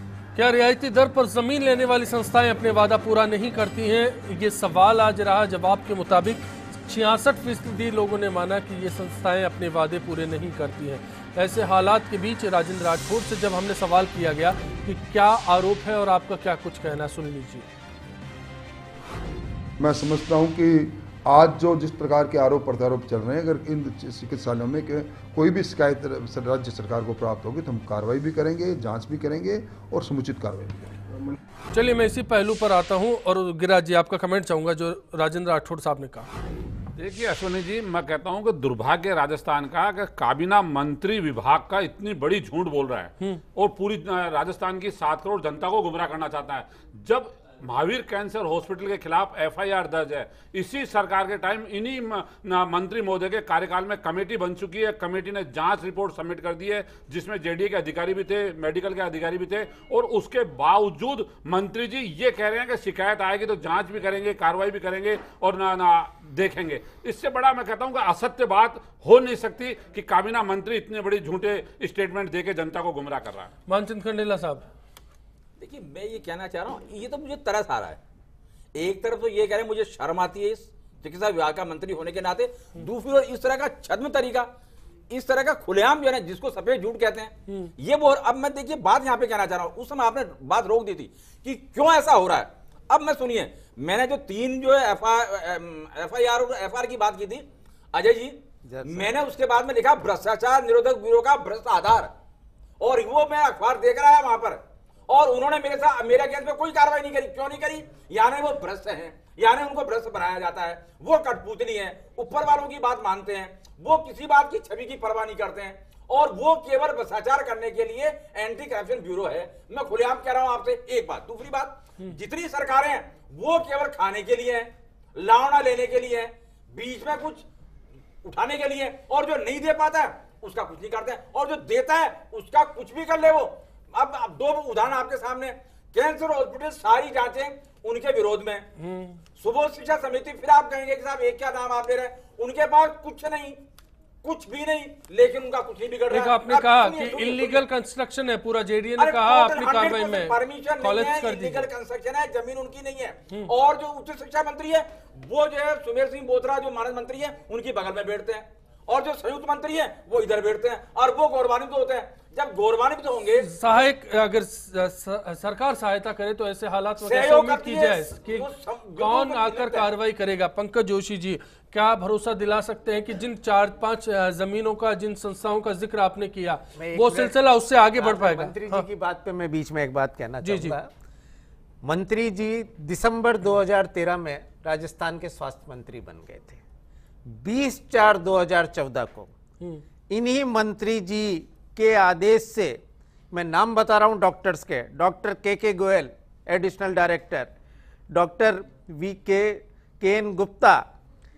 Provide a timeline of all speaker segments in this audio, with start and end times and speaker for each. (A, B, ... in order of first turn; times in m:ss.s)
0:00.3-0:17.7 A
0:19.8-0:31.0 B
0:31.7-0:36.3 A
0:37.0-1:13.5 C
1:13.7-1:14.7 A
1:15.6-1:18.0 D
1:18.8-1:24.5 D
1:25.1-1:42.1 D
1:38.6-1:39.2 E
1:42.8-2:07.4 D
2:08.2-2:18.7 D
2:18.8-2:19.2 A
2:19.4-2:23.6 D
2:24.2-2:27.6 D
2:26.1-2:31.7 A
2:29.0-2:43.5 D
2:43.4-2:58.9 A
2:47.0-2:49.9 D
2:56.8-2:57.4 E
2:57.9-3:00.9 E
3:00.4-3:00.8 A
3:01.8-3:06.6 E
3:07.2-3:09.3 E
3:10.1-3:12.8 E
3:13.3-3:17.5 E
3:18.1-3:20.8 E